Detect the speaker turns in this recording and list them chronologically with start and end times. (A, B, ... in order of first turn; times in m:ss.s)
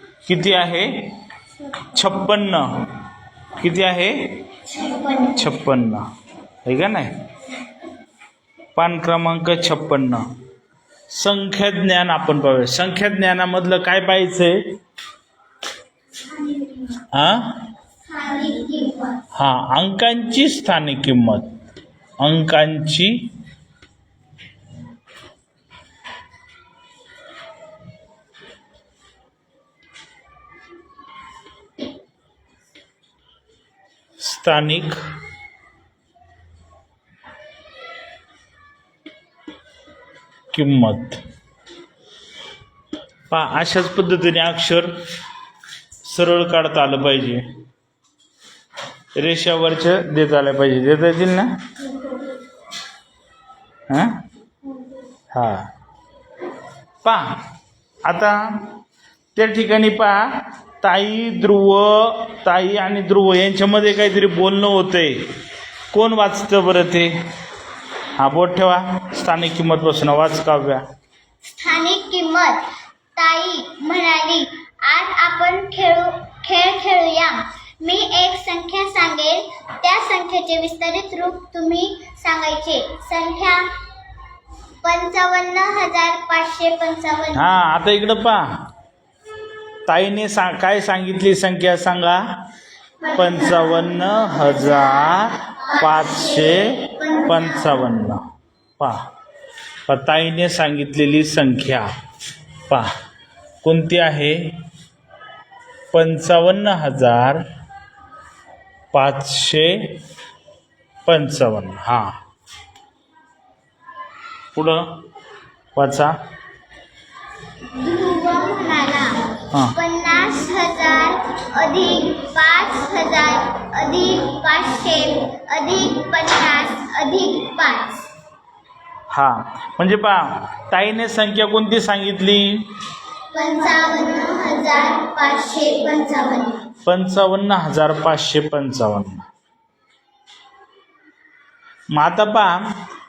0:00.2-0:01.1 A
0:01.9-0:02.9 A
0:03.6-0:04.4 A
0:04.7-0:05.4 B
0:05.3-0:06.0 A
0:06.6-0:07.2 A
0:08.7-0:10.3 A
0:11.1-0:14.7 A
0:17.1-0:17.6 A
0:18.1-0:19.2 B
0:19.3-0:21.5 A
0:22.2-0:23.3 A
0:34.2-0:35.0 A
0:40.5-0:41.2 A
0:43.3-0:44.9 A
0:46.0-0:47.5 A
0:49.1-0:51.6 A
0:53.9-0:54.2 A
0:55.3-0:55.7 A
0:57.0-0:57.4 A
0:58.0-0:58.7 A
0:59.3-1:05.3 A
1:05.9-1:07.2 A
1:08.2-1:10.8 A
1:11.6-1:12.6 B
1:13.2-1:23.7 B
1:24.8-1:27.6 B
1:27.3-1:28.6 A
1:29.8-1:32.4 A
1:33.1-1:38.2 A
1:34.1-1:35.2 B
1:35.7-1:37.8 B
1:38.8-1:39.0 A
1:39.8-1:41.9 A
1:42.7-1:42.9 A
1:43.6-1:44.6 A
1:45.9-1:47.4 A
1:48.9-1:50.0 A
1:51.0-1:52.2 A
1:54.5-1:54.9 A
1:55.7-1:56.2 A
1:57.8-2:08.0 B
1:59.5-1:59.8 A
2:09.1-2:12.6 A
2:13.3-2:16.6 B
2:16.8-2:19.3 A
2:21.9-2:22.7 A